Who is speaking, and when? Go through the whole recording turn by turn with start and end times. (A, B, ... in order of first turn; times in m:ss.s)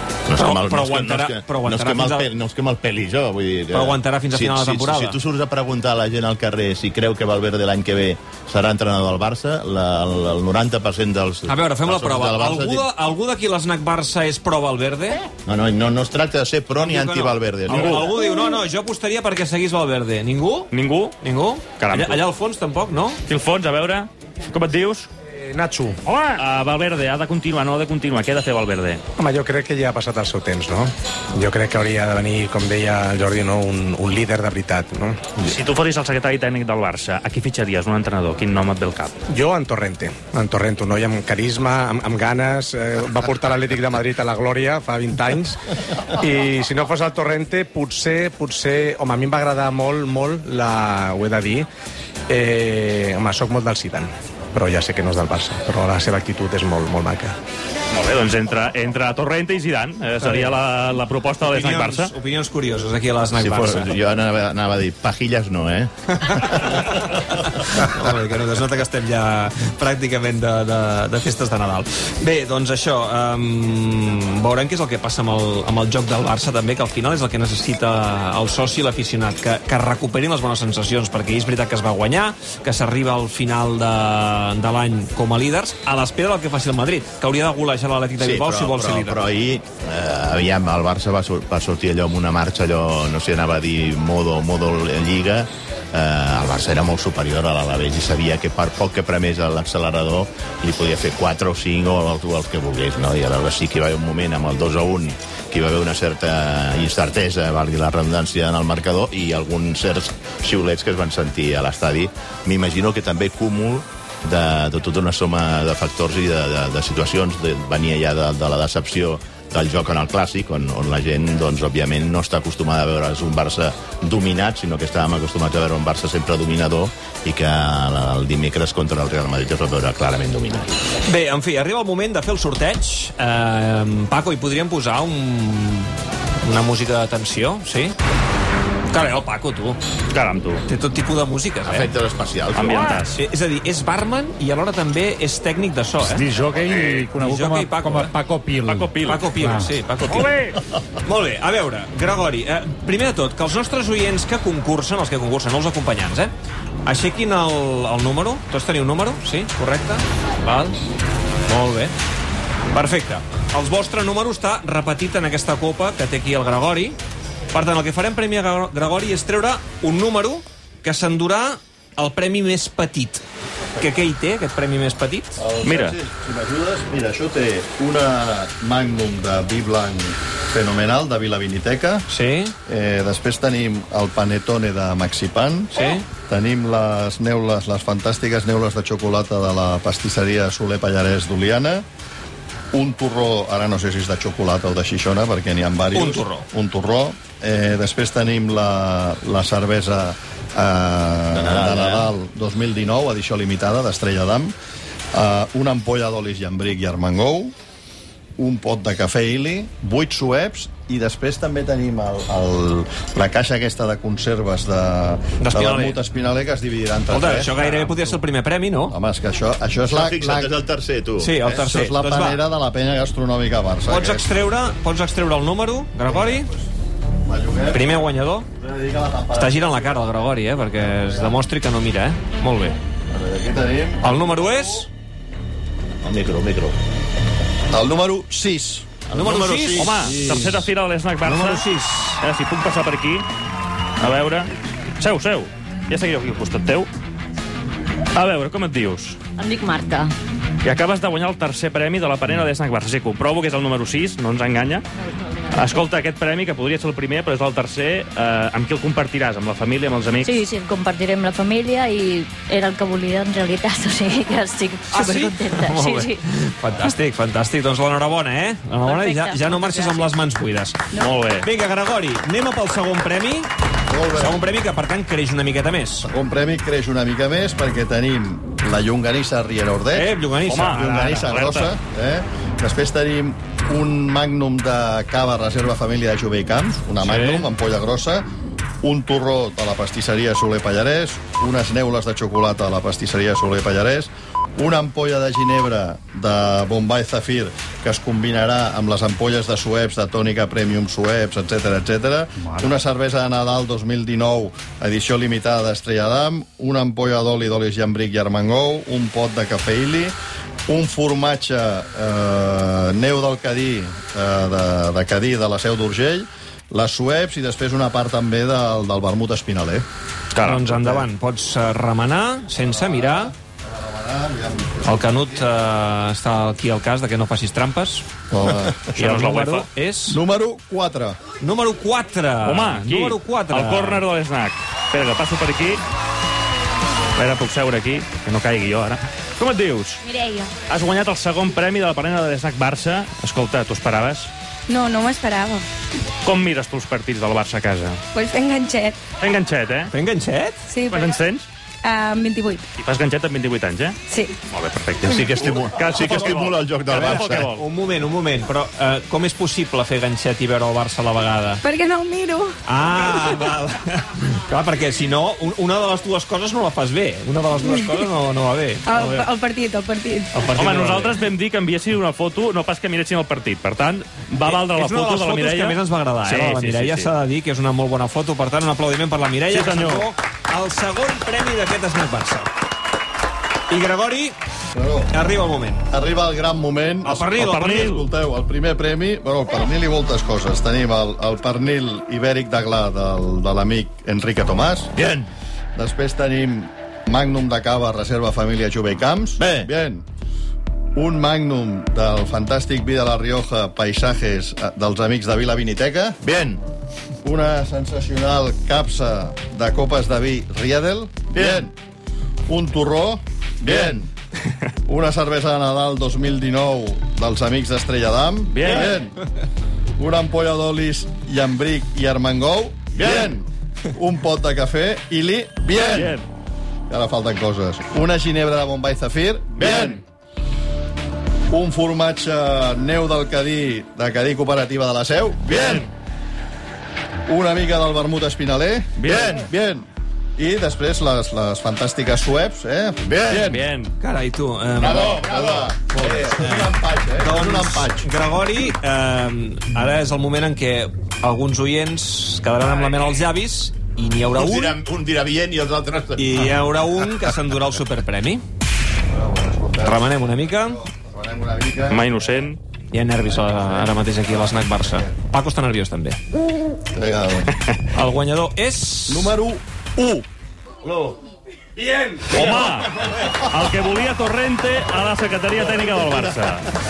0:00.3-0:12.9 A
0:00.4-0:02.3 B
0:03.7-0:05.2 B
0:11.5-0:15.2 B
0:15.5-0:18.2 A
0:16.8-0:20.7 B
0:17.7-0:18.0 C
0:20.7-0:21.2 C
0:21.2-0:23.2 B
0:21.8-0:22.2 C
0:23.3-0:25.1 C
0:25.4-0:26.0 D
0:26.1-0:29.0 C
0:29.2-0:35.5 D
0:35.4-0:39.2 C
0:39.3-0:51.7 D
0:52.3-0:57.4 D
0:57.9-1:02.1 C
1:00.2-1:00.6 B
1:01.4-1:03.9 B
1:03.3-1:07.0 A
1:06.5-1:29.2 B
1:28.2-2:10.7 A
2:11.0-2:18.0 B
2:18.9-2:19.8 B
2:20.1-2:20.6 C
2:20.7-2:21.9 B
2:21.6-2:23.0 A
2:22.6-2:23.2 C
2:23.2-2:26.3 B
2:26.0-2:29.7 E
2:26.6-2:27.1 C
2:27.2-2:28.1 B
2:28.7-2:29.2 C
2:29.1-2:30.3 B
2:30.1-2:30.6 C
2:31.0-2:36.3 B
2:36.8-2:40.8 B
2:41.5-2:41.9 B
2:42.7-2:47.0 B
2:47.5-2:53.2 B
2:53.8-2:55.4 B
2:55.4-3:02.1 F
2:55.6-2:56.0 C
3:02.1-3:02.5 B
3:02.7-3:05.7 F
3:05.7-3:06.0 B
3:06.3-3:11.8 F
3:12.7-3:24.5 F
3:15.9-3:16.5 B
3:21.3-3:22.1 A
3:25.1-3:27.6 F
3:28.4-3:37.8 F
3:35.4-3:36.0 B
3:37.1-3:39.0 B
3:38.9-3:40.5 F
3:39.9-3:41.4 A
3:41.2-3:42.4 B
3:41.4-3:44.3 F
3:43.9-3:46.5 B
3:46.1-3:46.6 F
3:47.2-3:48.0 F
3:47.7-3:48.5 B
3:48.6-3:49.9 F
3:49.4-3:52.8 B
3:50.8-3:51.4 F
3:53.1-3:54.6 F
3:54.0-3:54.9 B
3:56.0-3:56.8 A
3:57.7-4:00.6 F
3:59.1-3:59.9 B
3:59.8-4:01.6 C
4:01.2-4:02.2 B
4:02.2-4:03.2 C
4:04.0-4:06.9 C
4:08.2-4:09.2 C
4:09.4-4:10.1 G
4:10.6-4:14.8 C
4:15.0-4:15.8 G
4:15.5-4:20.4 C
4:20.2-4:26.2 G
4:24.9-4:30.8 B
4:28.8-4:30.1 G
4:30.9-4:31.5 C
4:31.4-4:33.5 B
4:33.9-4:34.4 F
4:34.2-4:36.1 B
4:36.1-4:48.2 F
4:39.9-4:41.0 B
4:40.5-4:41.7 C
4:47.0-4:47.5 B
4:48.8-5:10.2 F
5:10.7-5:19.9 F
5:20.4-5:20.6 C
5:20.4-5:23.3 B
5:20.7-5:21.1 F
5:22.6-5:25.5 F
5:24.8-5:28.1 B
5:28.3-5:28.9 F
5:28.9-5:30.2 B
5:29.0-5:29.7 C
5:30.1-5:31.2 F
5:31.4-5:34.0 B
5:32.4-5:35.8 C
5:37.2-5:40.0 C
5:40.0-5:40.5 H
5:40.7-5:44.3 C
5:44.7-5:45.7 H
5:46.2-5:48.0 C
5:48.1-5:49.0 H
5:49.2-5:49.9 C
5:49.9-5:50.6 B
5:50.7-5:51.2 H
5:50.9-5:51.5 C
5:51.8-5:52.6 H
5:52.8-5:54.0 C
5:54.1-5:54.4 H
5:54.5-5:57.6 C
5:55.0-5:57.5 A
5:56.9-6:01.6 B
6:01.6-6:02.6 H
6:02.7-6:09.3 B
6:08.8-6:10.3 H
6:10.3-6:11.2 B
6:10.5-6:17.1 C
6:14.4-6:22.5 B
6:19.5-6:20.1 C
6:23.7-6:24.4 B
6:24.7-6:25.2 F
6:25.1-6:25.8 B
6:25.9-6:34.9 F
6:27.0-6:28.0 B
6:27.4-6:28.1 C
6:35.0-6:35.3 A
6:35.8-6:40.0 F
6:39.4-6:39.7 A
6:41.0-6:46.2 F
6:46.2-6:46.6 A
6:47.2-6:51.8 F
6:51.3-6:51.6 A
6:52.5-6:54.1 F
6:53.6-6:54.0 A
6:54.9-6:59.2 F
6:58.5-6:58.9 C
7:00.0-7:06.2 F
7:03.0-7:03.3 A
7:05.7-7:06.3 C
7:06.9-7:10.0 F
7:09.6-7:10.0 A
7:11.5-7:15.9 F
7:15.5-7:15.8 A
7:15.6-7:15.8 C
7:17.3-7:19.9 F
7:19.0-7:19.4 C
7:19.1-7:19.5 A
7:20.4-7:23.6 F
7:23.1-7:23.5 A
7:23.4-7:23.9 C
7:24.0-7:25.2 B
7:24.8-7:26.7 A
7:24.8-7:28.1 F
7:26.3-7:26.7 B
7:27.2-7:34.8 B
7:34.4-7:36.5 A
7:36.2-7:38.4 B
7:39.1-7:42.0 F
7:39.8-7:40.8 B
7:41.9-7:42.6 C
7:42.9-7:46.2 B
7:43.3-7:45.1 F
7:46.9-7:47.5 F
7:47.9-7:49.3 B
7:49.1-7:50.3 F
7:51.8-7:52.5 D
7:52.3-7:56.7 C
7:52.3-7:52.7 F